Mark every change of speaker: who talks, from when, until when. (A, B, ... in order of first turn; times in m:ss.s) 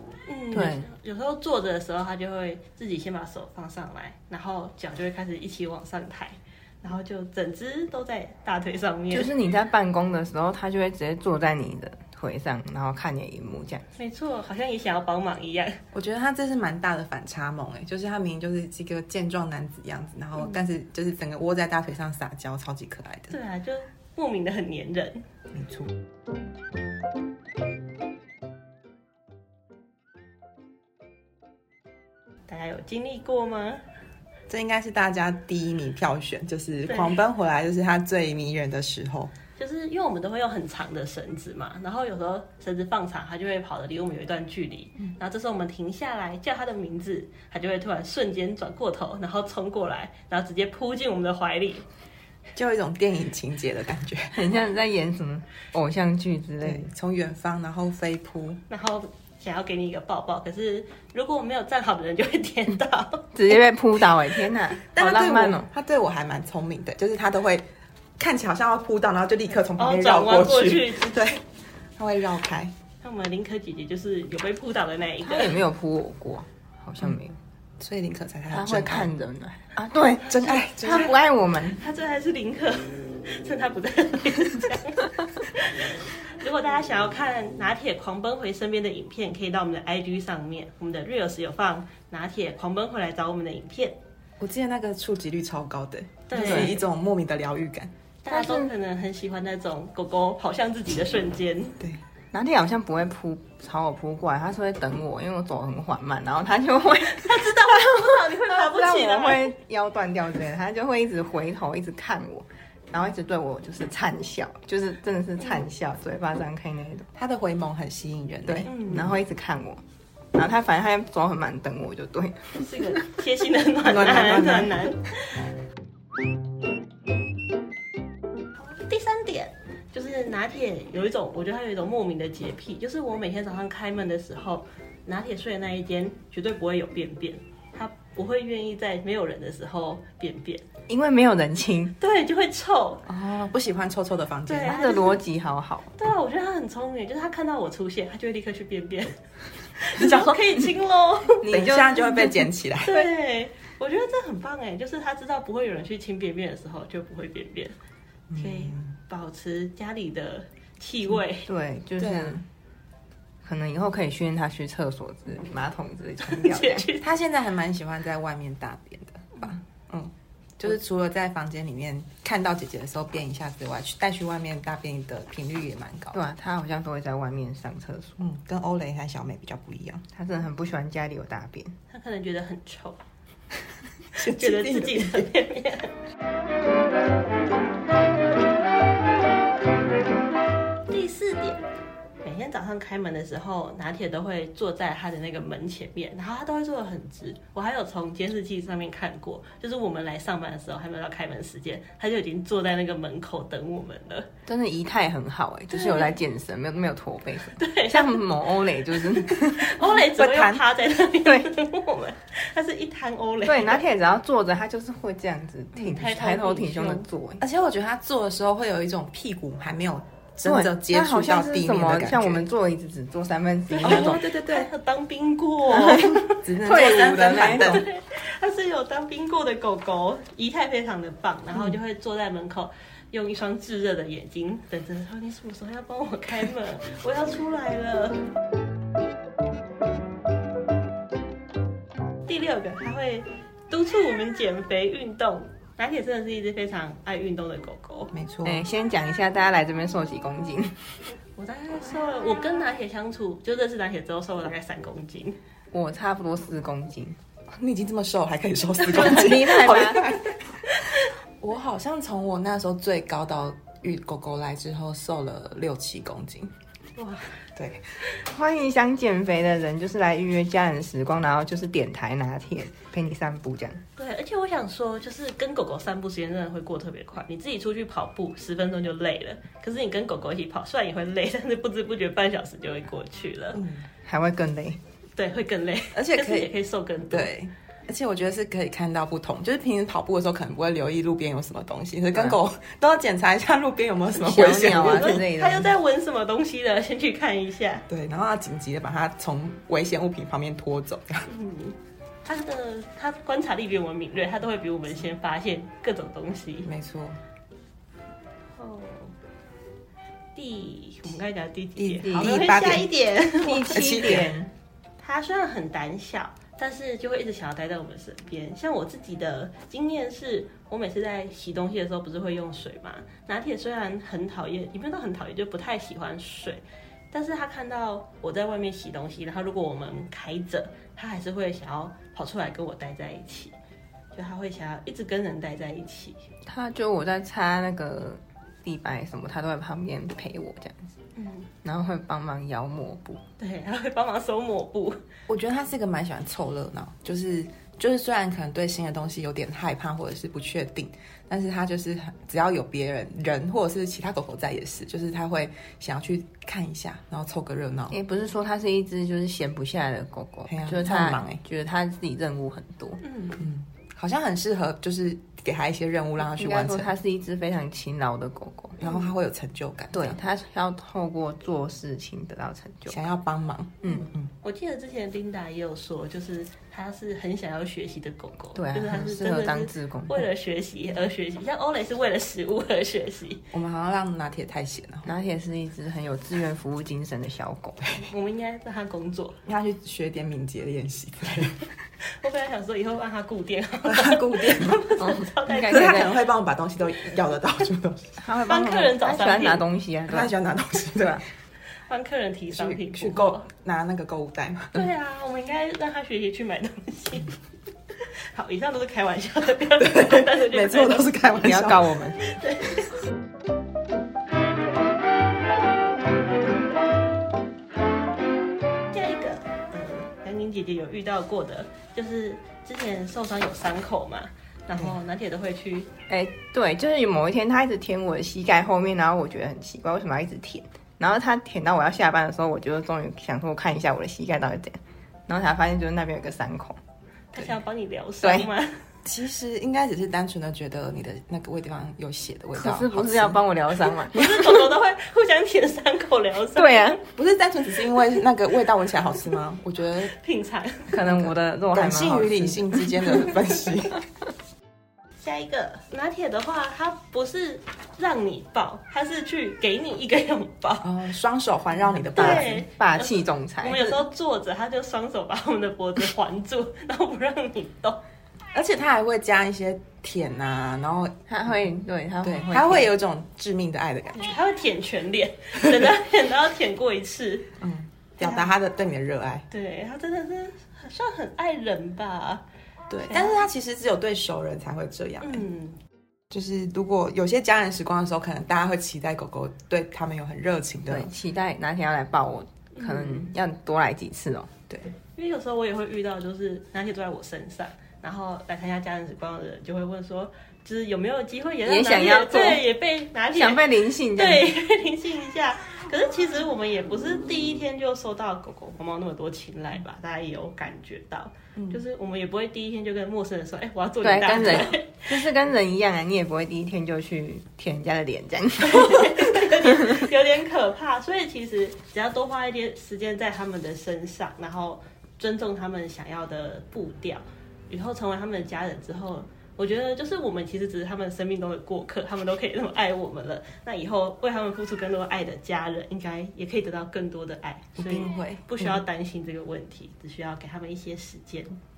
0:00.3-0:09.3 A
0:00.5-0:00.9 B
0:09.1-0:13.8 B
0:14.0-0:15.8 A
0:15.9-0:23.4 C
0:23.3-0:25.2 A
0:25.5-0:25.9 C
0:32.5-0:33.8 A
0:34.5-0:39.3 C
0:36.9-0:37.2 A
0:39.6-0:51.8 A
0:52.6-0:54.4 C
0:54.3-0:56.9 B
0:56.6-0:58.6 C
0:58.7-1:03.3 A
1:03.4-1:05.7 B
1:04.9-1:07.7 C
1:08.2-1:11.4 C
1:09.7-1:11.4 A
1:12.0-1:12.7 C
1:13.0-1:15.6 A
1:15.2-1:17.4 B
1:17.8-1:19.1 C
1:18.5-1:21.8 B
1:20.3-1:21.1 C
1:20.8-1:21.1 A
1:21.7-1:34.0 A
1:34.4-1:37.9 C
1:36.3-1:36.8 A
1:36.4-1:36.8 B
1:38.2-1:41.8 A
1:38.3-1:38.7 B
1:42.3-1:57.1 B
1:47.2-1:49.5 A
1:57.1-1:59.0 C
1:58.5-1:59.8 B
1:58.7-1:59.2 A
2:00.3-2:03.1 B
2:02.6-2:05.2 A
2:03.8-2:04.9 C
2:08.6-2:20.6 A
2:20.9-2:21.9 B
2:22.0-2:23.1 A
2:23.1-2:24.9 C
2:24.5-2:25.2 A
2:24.6-2:25.9 B
2:25.9-2:29.2 A
2:29.8-2:31.5 A
2:30.0-2:30.4 B
2:31.4-2:32.5 B
2:31.5-2:33.0 C
2:32.8-2:37.8 A
2:38.3-2:38.9 C
2:38.3-2:41.5 A
2:41.4-2:42.4 B
2:42.0-2:42.4 C
2:43.4-2:46.9 B
2:46.2-2:47.0 A
2:47.0-2:56.2 C
2:56.1-2:58.2 B
2:58.2-3:00.0 C
3:00.1-3:01.7 B
3:01.9-3:03.0 A
3:04.1-3:05.3 C
3:04.2-3:05.9 A
3:10.9-3:11.6 A
3:12.2-3:24.3 A
3:24.5-3:29.8 B
3:25.7-3:26.2 A
3:27.5-3:33.8 A
3:29.9-3:30.6 C
3:31.2-3:31.5 B
3:33.4-3:37.4 B
3:35.8-3:37.1 A
3:37.4-3:42.4 C
3:40.4-3:44.2 B
3:43.7-3:58.2 A
3:43.8-3:44.7 C
3:45.7-3:47.8 B
3:46.4-3:47.8 C
4:02.2-4:08.1 A
4:08.1-4:08.7 C
4:08.4-4:10.7 B
4:11.4-4:15.4 A
4:15.7-4:17.2 B
4:17.5-4:20.4 C
4:18.8-4:20.1 B
4:19.0-4:19.4 A
4:20.7-4:21.0 A
4:21.4-4:26.5 C
4:27.0-4:27.4 A
4:27.6-4:27.8 C
4:28.2-4:33.8 B
4:34.0-4:43.6 A
4:43.5-4:43.9 C
4:44.1-4:44.8 B
4:45.2-4:47.3 A
4:45.9-4:46.5 C
4:47.1-4:55.2 C
4:54.2-4:55.7 B
4:54.4-4:57.9 A
4:57.9-5:01.3 C
5:01.3-5:06.7 A
5:06.6-5:07.2 C
5:08.6-5:09.1 A
5:10.4-5:14.2 A
5:11.8-5:12.9 C
5:12.0-5:12.4 B
5:13.4-5:14.5 B
5:13.7-5:14.4 C
5:15.0-5:33.6 A
5:34.1-5:36.2 A
5:36.5-5:40.9 B
5:41.2-5:41.5 A
5:41.6-5:43.2 B
5:43.4-5:45.0 A
5:45.3-5:58.0 C
5:57.9-6:03.0 B
6:00.5-6:01.4 C
6:03.0-6:03.4 A
6:03.4-6:06.9 C
6:06.2-6:08.8 B
6:08.8-6:09.1 A
6:08.8-6:10.2 C
6:09.9-6:13.0 B
6:12.9-6:14.3 C
6:13.9-6:23.4 A
6:18.6-6:20.3 B
6:23.5-6:25.1 C
6:25.0-6:27.8 B
6:27.9-6:29.4 A
6:29.5-6:31.7 C
6:32.2-6:36.0 A
6:33.8-6:34.9 C
6:35.0-6:36.2 B
6:35.7-6:39.0 C
6:38.4-6:39.6 A
6:38.5-6:40.3 B
6:40.1-6:41.2 C
6:41.0-6:41.2 B
6:41.9-6:43.5 A
6:42.5-6:44.9 C
6:44.7-6:47.4 A
6:48.0-6:51.3 A
6:49.8-6:52.0 C
6:51.4-6:52.2 B
6:52.2-6:52.9 A
6:58.9-7:05.9 A
7:06.1-7:14.8 B
7:15.3-7:16.8 B
7:17.3-7:18.8 A
7:18.2-7:18.5 B
7:19.0-7:23.4 C
7:22.6-7:24.6 B
7:24.1-7:27.0 A
7:26.6-7:27.0 B
7:27.1-7:30.1 C
7:30.1-7:31.0 A
7:30.9-7:33.4 B
7:31.0-7:34.0 C
7:35.2-7:40.9 A
7:40.8-7:42.6 C
7:42.1-7:44.0 B
7:42.1-7:48.0 A
7:48.5-7:51.2 C
7:51.3-7:52.9 B
7:52.2-7:54.3 C
7:54.2-7:57.5 A
7:57.6-7:59.5 C
7:58.2-7:58.5 A
7:59.5-8:02.4 A
8:02.9-8:05.4 C
8:03.1-8:03.3 A
8:05.2-8:05.8 A
8:06.3-8:11.1 C
8:10.9-8:14.5 B
8:12.8-8:13.3 A
8:15.0-8:35.2 A
8:21.6-8:22.6 B
8:23.3-8:24.5 B
8:34.0-8:40.0 B
8:38.6-9:01.6 A
8:57.8-8:58.8 C